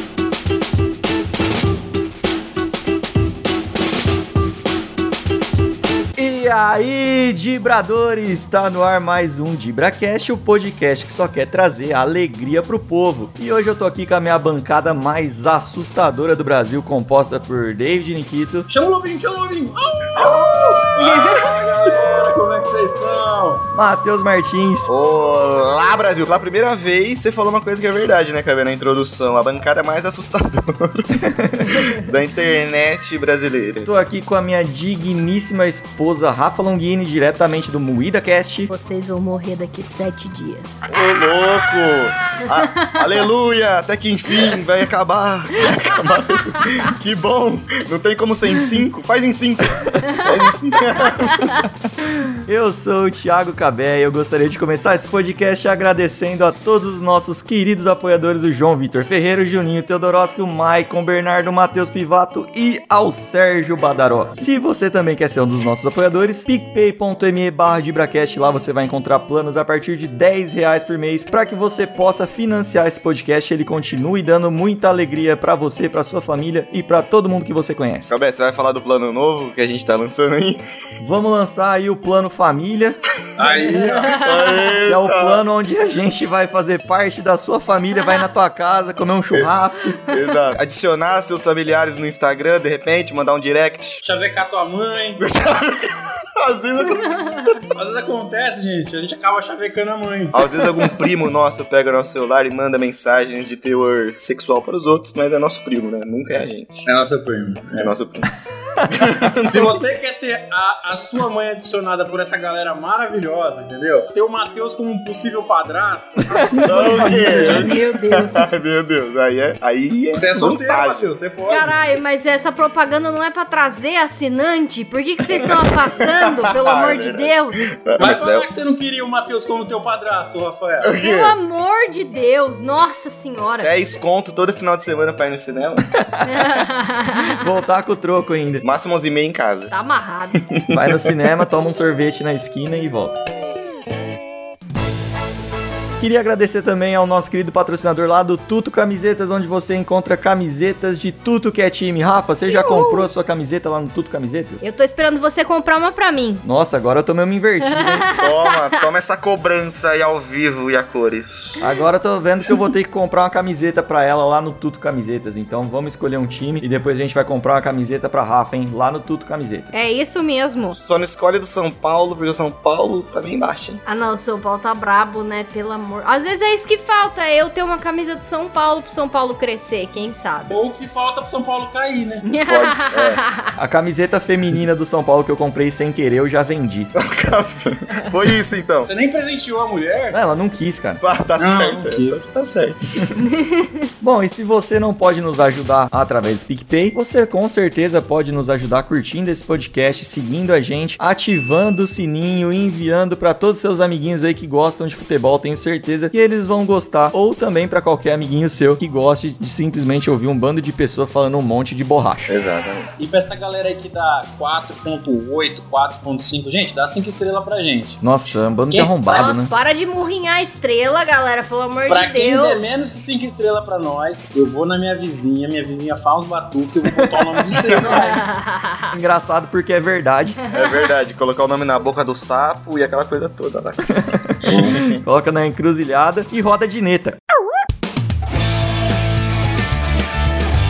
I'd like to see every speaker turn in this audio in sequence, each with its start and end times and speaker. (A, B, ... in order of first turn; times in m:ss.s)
0:06.2-0:18.7 A
0:18.7-0:23.6 B
0:20.2-0:22.1 C
0:21.1-0:21.4 D
0:23.7-0:24.9 A
0:24.9-0:33.9 C
0:31.2-0:31.8 A
0:33.8-0:38.7 A
0:38.7-0:42.9 D
0:40.9-0:51.6 C
0:52.4-1:18.1 A
1:18.1-1:20.6 C
1:21.0-1:23.0 A
1:23.4-1:24.2 B
1:23.4-1:25.4 C
1:23.7-1:24.6 D
1:24.9-1:30.0 A
1:30.1-1:34.0 C
1:34.0-1:35.2 B
1:35.2-1:37.6 C
1:36.9-1:37.5 D
1:37.7-1:40.4 B
1:40.3-1:46.8 C
1:46.8-1:47.9 B
1:47.8-1:48.3 C
1:48.8-1:49.3 A
1:48.9-1:49.9 C
1:49.4-1:57.7 B
1:56.3-1:57.7 A
1:56.7-2:01.0 C
1:56.8-1:58.5 D
2:00.1-2:01.7 B
2:01.5-2:07.6 D
2:05.4-2:07.3 C
2:07.8-2:08.5 C
2:08.0-2:10.9 B
2:10.8-2:11.4 C
2:11.0-2:13.7 D
2:13.6-2:15.9 C
2:16.0-2:16.5 A
2:16.3-2:17.4 D
2:17.4-2:18.6 A
2:18.6-2:19.7 C
2:19.7-2:20.4 D
2:20.6-2:21.1 C
2:20.7-2:23.2 A
2:26.0-2:34.6 A
2:32.5-2:33.1 D
2:34.6-2:36.4 D
2:36.4-2:38.0 A
2:37.6-2:38.4 D
2:38.2-2:41.6 C
2:41.6-2:49.7 A
2:49.7-2:50.8 D
2:50.7-2:53.8 C
2:53.9-3:00.6 D
3:00.5-3:02.2 B
3:02.2-3:03.4 D
3:02.5-3:03.2 C
3:03.6-3:06.9 A
3:07.0-3:08.9 C
3:08.8-3:10.2 B
3:10.1-3:11.0 A
3:11.0-3:13.2 C
3:11.4-3:12.2 B
3:13.2-3:13.7 D
3:14.0-3:32.3 A
3:32.3-3:32.9 C
3:33.0-3:38.0 B
3:38.0-3:39.5 A
3:38.7-3:39.0 B
3:39.0-3:42.6 D
3:41.9-3:48.2 B
3:47.7-3:48.0 C
3:48.0-3:48.9 D
3:48.9-3:50.4 A
3:50.5-3:55.0 C
3:54.0-3:57.3 A